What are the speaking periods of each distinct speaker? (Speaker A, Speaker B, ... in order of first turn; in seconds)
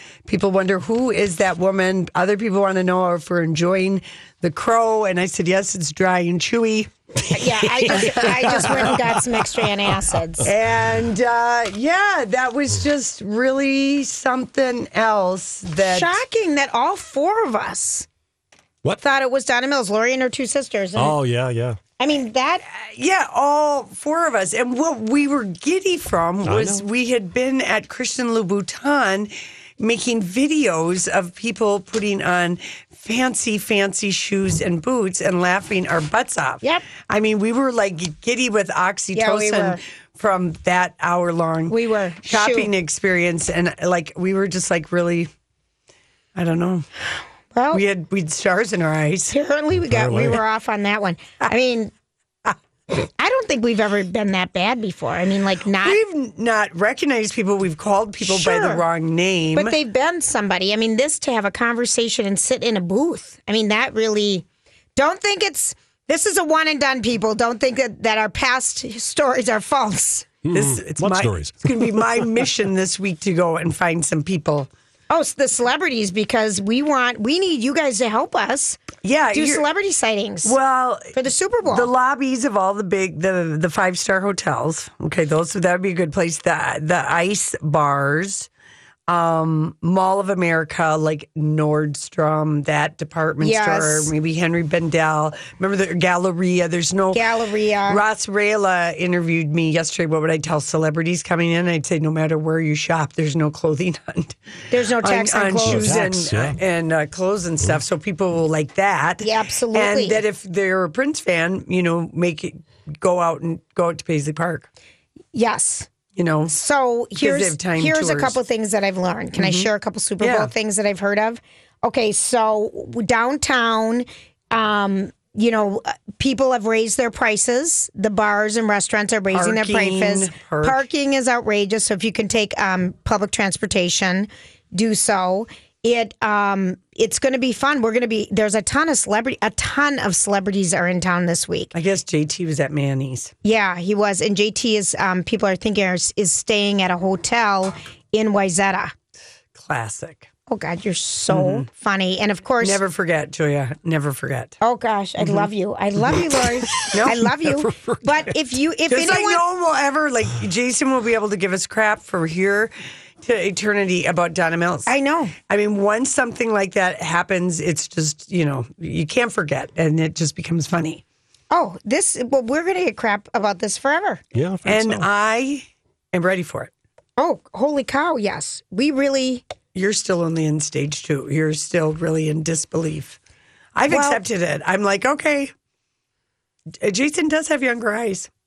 Speaker A: 0.3-9.2, 10.4-16.2, 22.7-45.3, 46.3-46.9, 47.7-49.3, 55.8-59.7, 70.5-74.7, 79.0-79.6, 80.4-88.5, 89.1-97.2, 97.9-104.3, 105.0-114.7, 116.1-116.5, 117.2-118.4, 119.4-119.7, 120.2-120.5, 129.3-130.8, 141.7-143.3, 149.5-150.3, 151.3-151.7, 152.6-154.6, 155.2-155.5, 156.9-157.3, 158.9-164.9, 165.5-171.0, 174.6-176.7, 179.7-183.2, 183.7-185.5, 186.8-188.3
Speaker B: 7.3-10.5, 15.8-18.1, 19.0-21.2, 22.0-22.6, 39.1-39.8, 41.7-42.7, 47.5-47.8, 49.3-51.9, 53.2-56.0, 58.2-58.8, 59.5-64.4, 65.0-70.3, 75.1-80.6, 81.1-81.9, 93.4-94.1, 97.1-98.0, 104.7-106.0, 109.2-110.2, 115.3-115.9, 116.5-141.7, 143.4-148.9, 150.5-152.8, 154.6-159.4, 164.9-165.3, 171.5-174.2, 177.2-179.4, 183.9-184.2
Speaker C: 20.9-21.8, 26.4-26.8, 49.7-50.4, 70.4-72.3, 105.6-106.6, 156.8-158.3, 174.3-175.1